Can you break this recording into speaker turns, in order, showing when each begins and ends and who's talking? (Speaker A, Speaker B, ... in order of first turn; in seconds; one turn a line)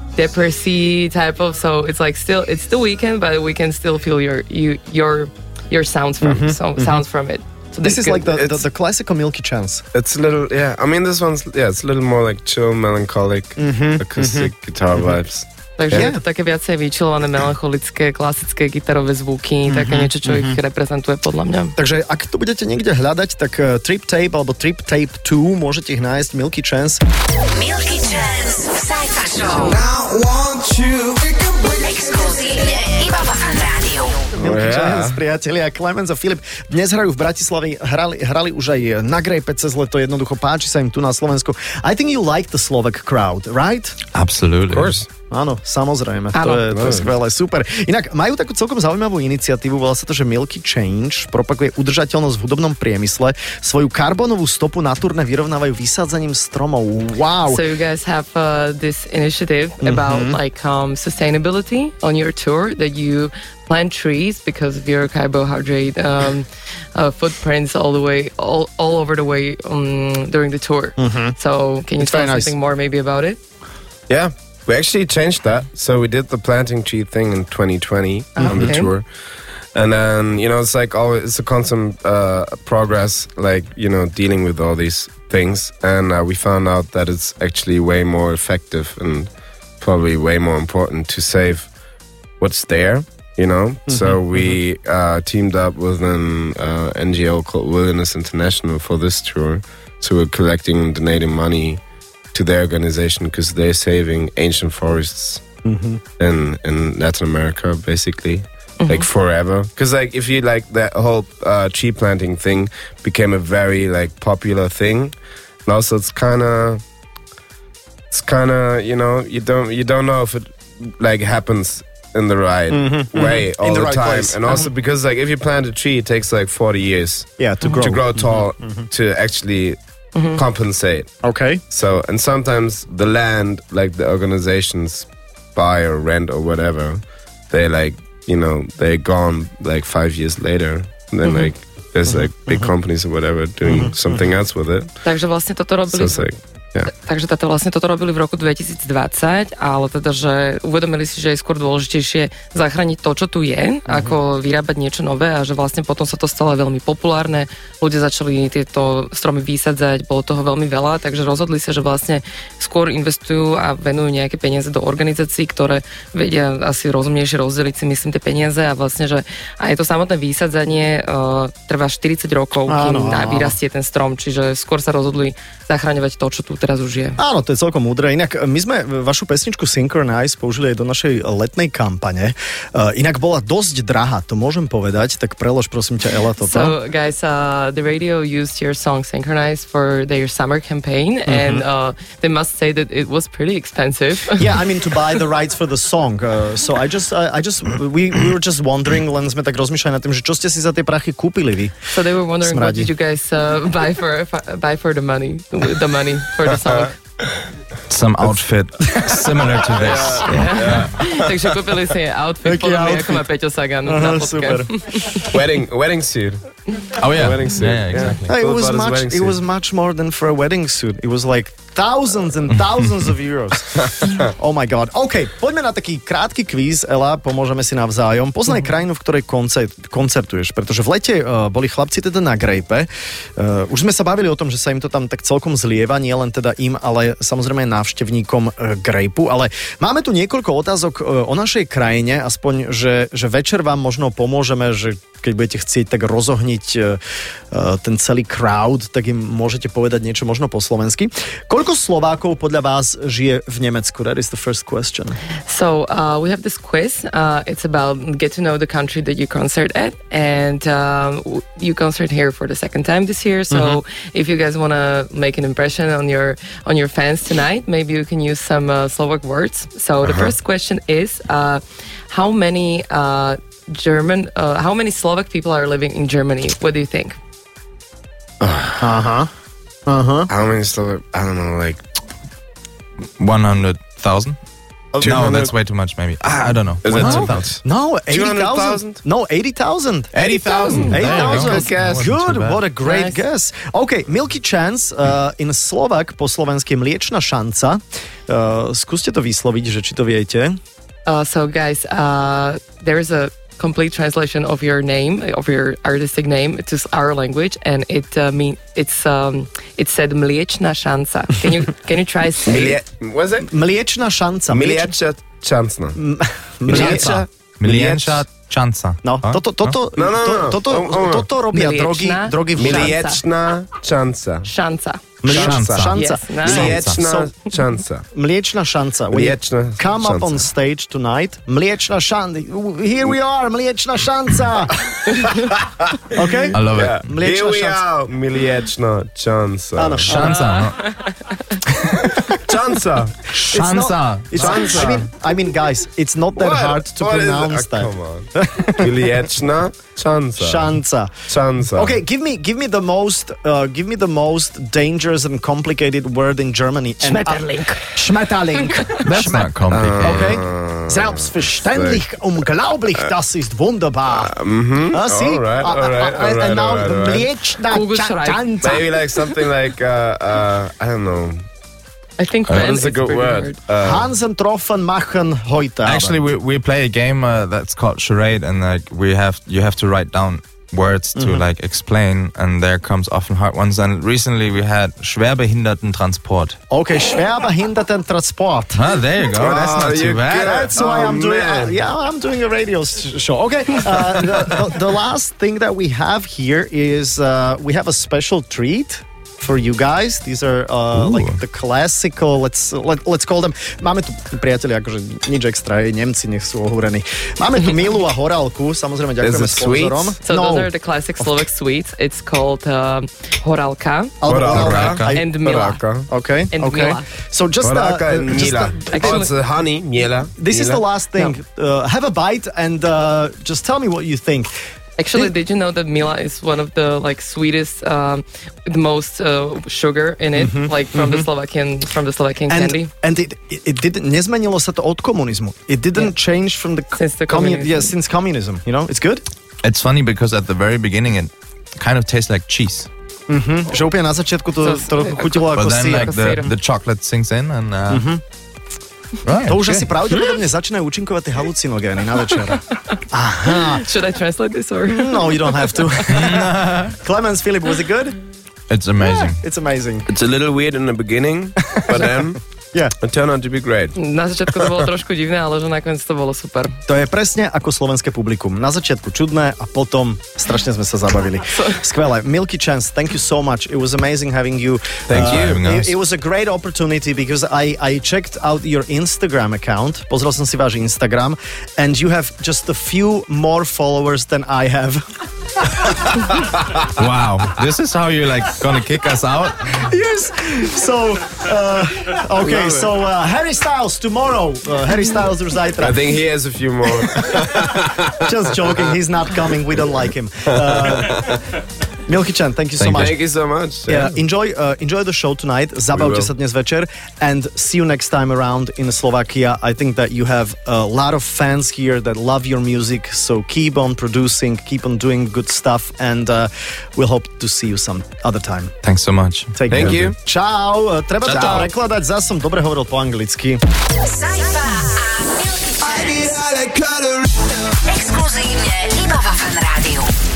Speaker A: 0.1-8.4
Speaker B: 6.2-7.0
Speaker B: 7.8-9.8
Speaker C: 9.9-16.1
Speaker B: 13.6-15.2
Speaker A: 15.8-21.7
Speaker B: 15.9-16.2
Speaker B: 19.6-20.6
Speaker B: 21.8-27.0
Speaker D: 27.5-29.8
Speaker E: 29.6-32.2
Speaker D: 31.8-34.2
Speaker B: 34.3-44.0
Speaker C: 34.4-35.2
Speaker F: 44.1-45.0
Speaker C: 44.7-45.1
Speaker B: 45.3-57.6
Speaker A: 46.3-46.6
Speaker C: 46.7-47.1
Speaker A: 57.5-73.4
Speaker B: 59.8-60.4
Speaker B: 71.0-71.3
Speaker B: 72.0-72.5
Speaker C: 74.1-91.8
Speaker A: 78.4-78.9
Speaker B: 78.4-78.8
Speaker C: 92.4-105.5
Speaker B: 93.9-94.6
Speaker B: 105.6-106.0
Speaker C: 106.2-116.8
Speaker A: 108.8-109.0
Speaker C: 118.1-144.9
Speaker B: 122.7-124.6
Speaker B: 127.4-128.9
Speaker A: 130.1-130.4
Speaker B: 131.2-131.6
Speaker A: 141.2-141.5
Speaker B: 142.1-142.7
Speaker B: 143.6-144.2
Speaker A: 145.0-146.3
Speaker C: 145.9-146.9
Speaker A: 146.8-177.2
Speaker B: 153.9-154.1
Speaker B: 172.7-173.6
Speaker B: 177.2-186.8
Speaker A: 186.4-194.6
Speaker B: 191.2-191.7
Speaker B: 194.4-201.7
Speaker A: 201.9-206.9
Speaker B: 202.4-202.9
Speaker F: 207.9-210.9
Speaker C: 209.7-211.3
Speaker A: 210.2-215.3
Speaker B: 212.4-213.2
Speaker B: 213.8-215.0
Speaker C: 215.3-216.6
Speaker F: 217.0-218.3
Speaker C: 217.1-219.4
Speaker B: 218.2-247.0
Speaker B: 247.5-255.2
Speaker A: 255.5-277.2
Speaker B: 263.5-263.8
Speaker C: 270.0-270.3
Speaker C: 278.4-278.9
Speaker B: 278.8-279.3
Speaker B: 279.9-280.3
Speaker C: 280.3-281.8
Speaker F: 283.2-284.4
Speaker C: 284.9-285.5
Speaker F: 285.0-287.5
Speaker C: 286.8-289.0
Speaker B: 286.9-290.2
Speaker C: 290.1-292.1
Speaker A: 290.3-291.7
Speaker F: 290.8-292.6
Speaker B: 290.9-300.6
Speaker A: 292.8-293.2
Speaker A: 301.1-312.8
Speaker C: 312.4-313.5
Speaker B: 313.4-314.9
Speaker C: 314.5-316.0
Speaker B: 315.9-317.2
Speaker C: 316.6-318.2
Speaker F: 316.7-319.7
Speaker B: 319.0-323.0
Speaker C: 319.9-321.3
Speaker A: 321.5-323.2
Speaker C: 322.6-324.5
Speaker A: 324.4-325.0
Speaker B: 325.2-327.3
Speaker C: 325.2-328.1
Speaker F: 325.3-327.0
Speaker A: 325.9-326.8
Speaker B: 328.1-334.8
Speaker C: 329.1-330.5
Speaker C: 334.9-336.0
Speaker B: 336.1-337.8
Speaker F: 336.5-337.1
Speaker C: 336.6-340.1
Speaker B: 339.8-340.4
Speaker F: 340.1-340.9
Speaker A: 340.2-341.3
Speaker C: 342.3-343.3
Speaker F: 343.3-345.0
Speaker B: 343.5-348.9
Speaker C: 344.4-345.1
Speaker C: 346.4-350.8
Speaker B: 350.4-364.3
Speaker C: 351.3-352.0
Speaker F: 359.0-360.4
Speaker C: 359.7-362.1
Speaker C: 364.1-367.3
Speaker B: 364.9-368.9
Speaker A: 367.7-369.2
Speaker C: 368.6-371.5
Speaker A: 372.2-373.6
Speaker C: 372.5-374.1
Speaker B: 373.8-376.2
Speaker F: 375.8-386.6
Speaker B: 381.1-381.4
Speaker B: 386.7-388.8
Speaker F: 388.7-390.7
Speaker C: 389.4-391.8
Speaker B: 390.4-411.4
Speaker F: 400.9-401.4
Speaker C: 409.2-410.1
Speaker A: 410.2-414.2
Speaker B: 414.2-415.3
Speaker C: 414.2-416.1
Speaker F: 414.5-415.1
Speaker A: 415.1-415.8
Speaker B: 416.1-419.3
Speaker A: 416.5-417.1
Speaker C: 417.6-420.8
Speaker A: 418.9-419.3
Speaker B: 420.4-424.5
Speaker A: 425.0-432.9
Speaker B: 430.3-431.3
Speaker B: 432.5-439.2
Speaker A: 436.9-437.9
Speaker F: 439.6-442.9
Speaker B: 443.3-446.1
Speaker A: 444.6-446.5
Speaker F: 445.6-448.1
Speaker B: 447.9-448.2
Speaker F: 449.2-450.3
Speaker B: 449.4-453.8
Speaker A: 453.5-456.0
Speaker B: 454.9-458.2
Speaker F: 456.1-456.9
Speaker F: 458.7-459.4
Speaker B: 459.0-460.1
Speaker C: 460.1-462.4
Speaker B: 461.8-462.2
Speaker C: 463.0-463.9
Speaker A: 463.9-466.8
Speaker B: 466.9-485.0
Speaker A: 471.5-471.8
Speaker C: 475.1-475.6
Speaker F: 475.1-475.9
Speaker B: 485.6-485.9
Speaker F: 486.9-489.8
Speaker B: 489.7-496.0
Speaker C: 492.4-492.9
Speaker C: 495.8-498.9
Speaker B: 497.1-501.3
Speaker C: 500.5-501.4
Speaker B: 502.1-503.2
Speaker F: 502.8-503.1
Speaker C: 502.9-504.1
Speaker B: 503.9-518.7
Speaker C: 505.9-506.3
Speaker F: 518.8-520.0
Speaker B: 519.5-523.6
Speaker C: 519.7-520.1
Speaker F: 521.2-521.7
Speaker C: 521.3-521.6
Speaker D: 524.0-526.4
Speaker E: 525.8-527.8
Speaker D: 527.8-530.1